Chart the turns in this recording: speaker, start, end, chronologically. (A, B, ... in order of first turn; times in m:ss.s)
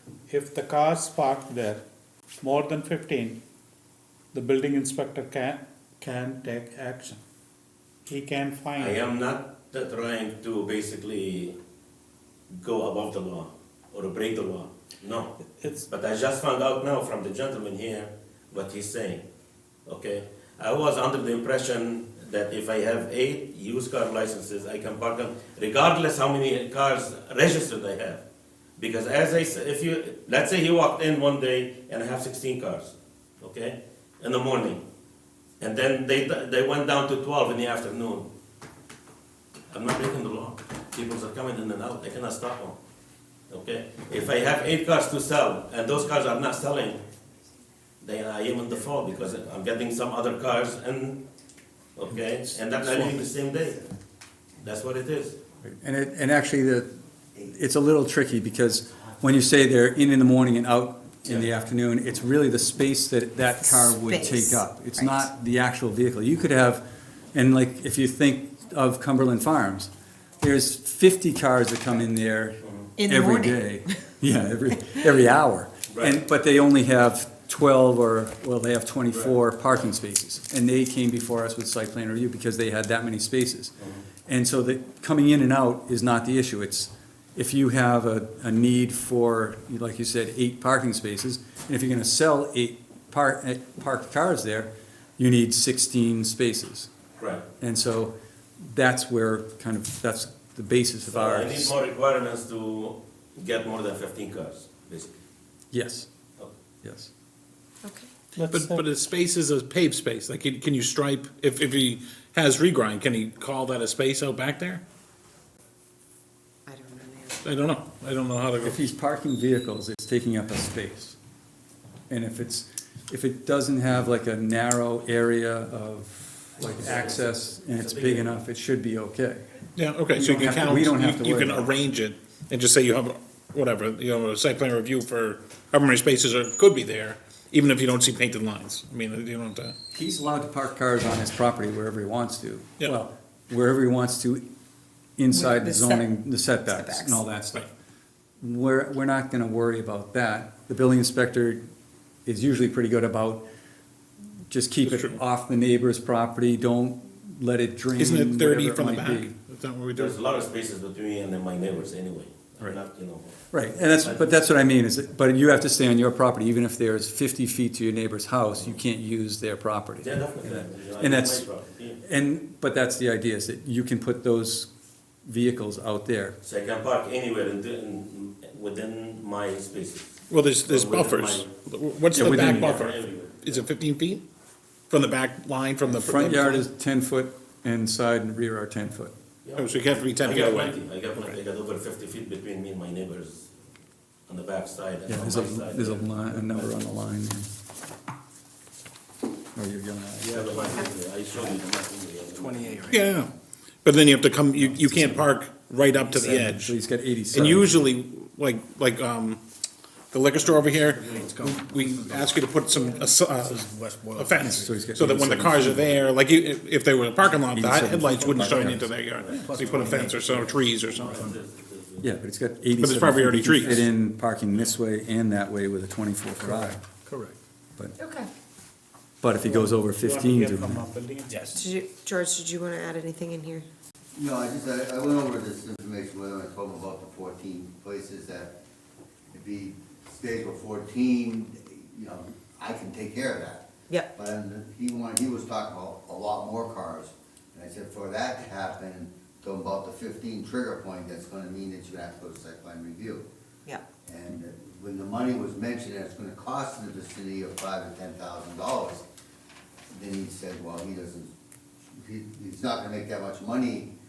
0:00.3-0:01.8 A
0:02.4-0:03.4 A
0:04.3-0:07.2 A
0:08.1-0:09.0 A
0:08.8-0:11.6 B
0:12.5-0:19.2 B
0:19.9-0:28.2 B
0:28.8-0:34.8 B
0:35.6-0:38.3 B
0:39.7-0:42.8 B
0:43.5-0:47.0 B
0:48.0-0:51.2 B
0:52.0-0:53.8 B
0:54.6-0:55.4 B
0:55.6-1:06.8 C
1:01.2-1:01.5 B
1:03.6-1:05.3 D
1:07.3-1:23.7 C
1:12.6-1:12.9 B
1:13.0-1:14.0 D
1:15.9-1:16.2 B
1:23.8-1:24.0 B
1:24.3-1:36.9 C
1:37.2-1:37.4 B
1:37.6-1:41.7 C
1:41.1-1:45.2 B
1:45.7-1:46.1 C
1:46.8-1:47.1 C
1:48.4-1:48.8 A
1:48.4-1:54.8 E
1:56.7-1:57.5 D
1:57.4-1:58.8 E
1:58.6-2:01.2 C
2:02.1-2:09.4 C
2:06.6-2:08.4 B
2:09.8-2:19.8 E
2:10.1-2:11.7 C
2:19.9-2:24.4 C
2:25.2-2:27.7 C
2:25.3-2:26.1 D
2:26.6-2:27.2 D
2:28.4-2:31.6 C
2:32.3-2:33.4 C
2:34.5-2:39.3 C
2:34.8-2:35.2 E
2:38.0-2:40.2 E
2:40.0-2:44.3 B
2:43.5-2:51.5 C
2:50.0-2:52.0 B
2:52.0-2:54.7 C
2:55.3-2:56.4 C
2:56.4-3:01.5 B
3:00.3-3:04.2 E
3:02.2-3:02.8 C
3:02.2-3:03.7 B
3:04.9-3:06.6 E
3:05.9-3:09.1 C
3:09.4-3:13.5 B
3:09.6-3:11.4 E
3:14.3-3:16.8 B
3:15.1-3:17.5 C
3:19.6-3:20.8 C
3:20.2-3:22.9 B
3:22.3-3:23.3 F
3:22.9-3:23.3 E
3:23.8-3:26.8 E
3:24.6-3:25.3 C
3:26.0-3:27.8 C
3:27.3-3:29.4 E
3:30.1-3:41.3 E
3:30.4-3:34.9 F
3:34.4-3:36.0 C
3:37.4-3:38.9 C
3:39.2-3:42.1 B
3:39.3-3:41.3 F
3:42.0-3:46.8 C
3:42.8-3:43.9 E
3:46.4-3:47.4 F
3:48.0-3:48.3 D
3:49.2-3:50.8 C
3:49.4-3:51.5 A
3:51.3-3:51.6 F
3:51.5-3:53.7 D
3:54.1-3:58.6 G
3:59.3-4:13.2 G
4:14.0-4:19.0 G
4:19.9-4:21.3 G
4:21.9-4:23.9 G